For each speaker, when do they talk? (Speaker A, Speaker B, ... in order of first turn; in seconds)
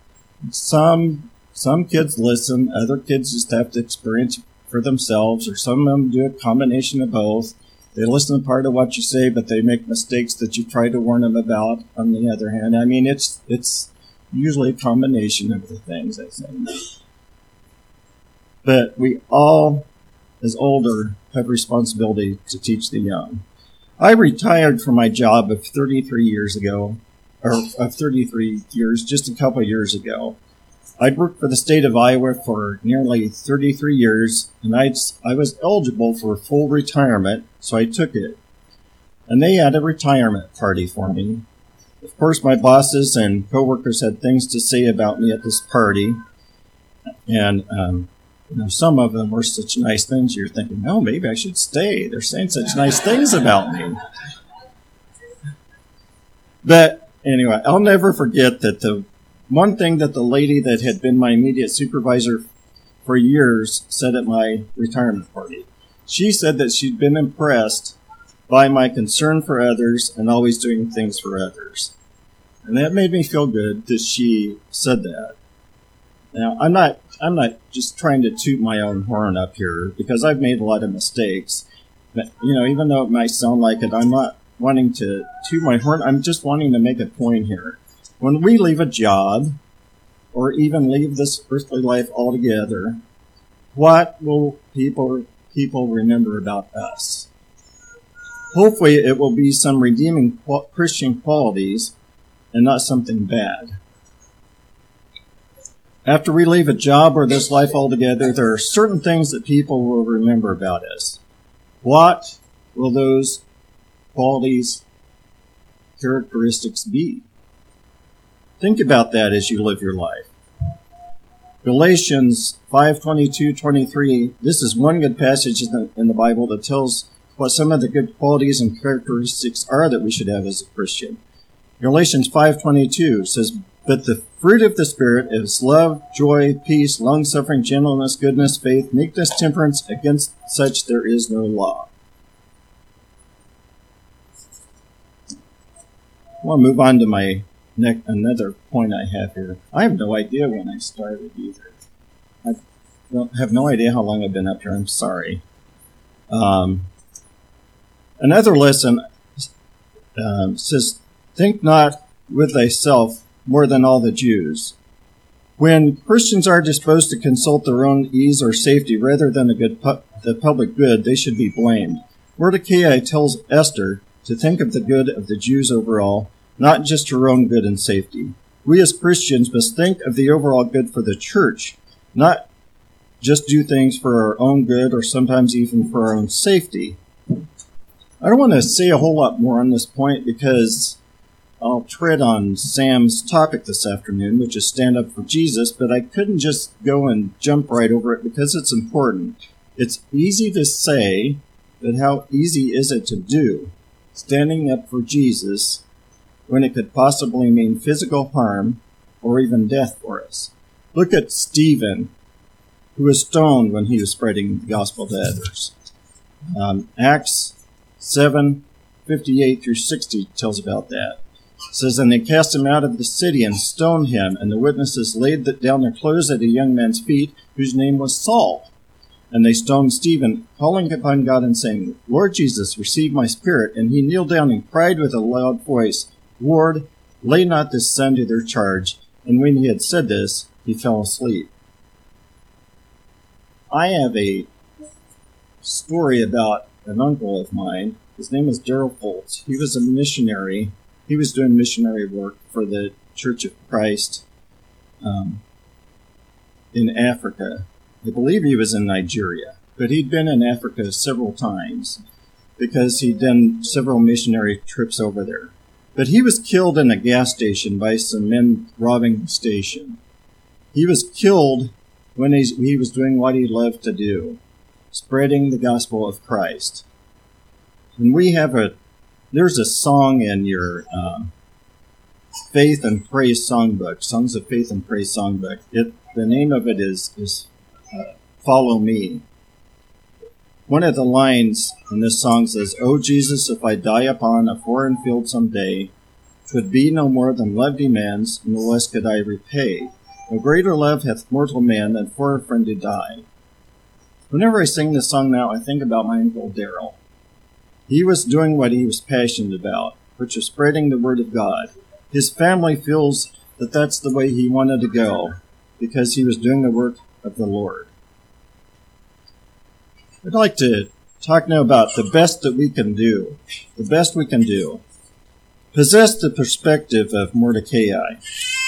Speaker A: 0.4-16.9, 18.6-19.9, 20.4-23.4, 24.0-30.4, 31.0-38.4, 39.3-41.5, 42.0-46.2, 47.3-54.0, 56.6-62.4, 63.0-68.0, 68.5-71.9, 72.7-75.3, 76.3-89.6, 90.3-93.0, 93.7-97.3, 98.5-101.9, 102.5-103.7, 106.0-111.2, 111.8-113.4, 114.1-114.8, 116.0-117.2, 118.6-120.3, 121.6-131.2, 131.8-141.9, 146.4-151.8, 153.1-155.4, 156.3-156.9, 158.2-159.5, 160.2-164.7, 165.6-182.4, 183.2-187.0, 188.2-191.0, 191.6-205.8, 206.5-212.1, 212.9-215.7, 216.5-221.2, 221.7-228.7, 229.3-241.5, 243.7-244.5, 245.6-254.2, 255.0-255.4, 256.7-262.0, 262.6-270.0, 270.7-274.4, 274.9-276.8, 278.0-278.8, 279.3-281.3, 282.5-289.2, 290.7-295.9, 296.5-303.2, 304.3-307.0, 307.9-317.9, 320.2-324.8, 325.7-328.2